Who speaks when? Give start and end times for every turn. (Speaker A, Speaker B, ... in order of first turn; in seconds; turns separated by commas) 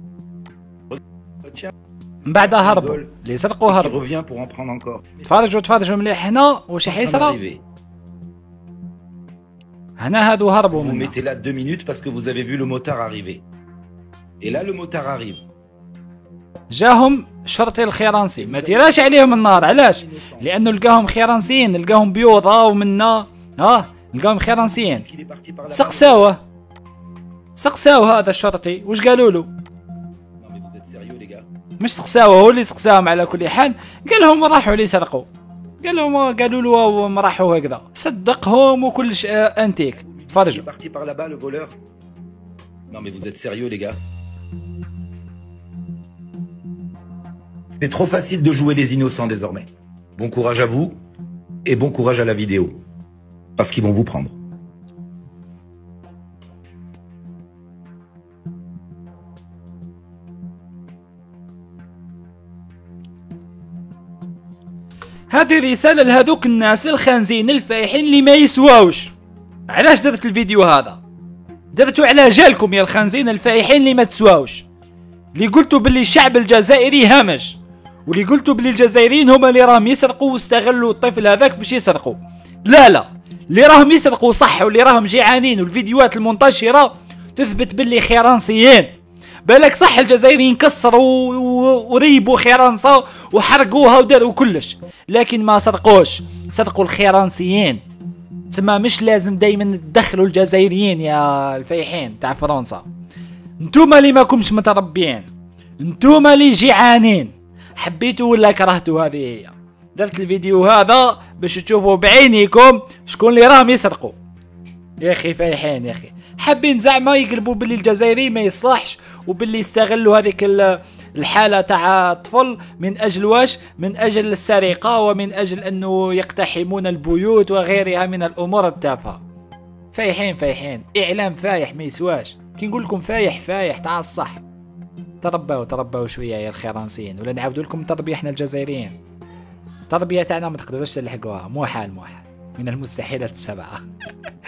Speaker A: 0.9-1.7, Speaker B: 2.3-4.0, Speaker A: 2.3-3.1, Speaker A: 3.7-5.2, Speaker B: 5.2-7.4, Speaker A: 6.8-7.6, Speaker B: 10.0-11.1, Speaker A: 10.7-13.4, Speaker A: 14.4-15.4, Speaker B: 16.7-25.1, Speaker A: 18.4-20.5, Speaker A: 24.9-26.3, Speaker B: 25.7-26.4, Speaker B: 27.6-29.5, Speaker A: 30.4-31.4, Speaker B: 31.8-35.3, Speaker B: 35.8-40.6, Speaker A: 40.0-41.7, Speaker A: 42.9-44.0, Speaker A: 47.7-51.0, Speaker A: 51.6-52.8, Speaker A: 53.6-54.3, Speaker B: 65.3-69.1, Speaker B: 69.7-71.0, Speaker B: 71.7-74.7, Speaker B: 75.3-88.9, Speaker B: 89.5-97.8, Speaker B: 98.5-102.8, Speaker B: 103.6-105.3, Speaker B: 105.8-114.2, Speaker B: 115.0-129.2, Speaker B: 129.9-134.4, Speaker B: 135.2-139.0, Speaker B: 139.9-143.8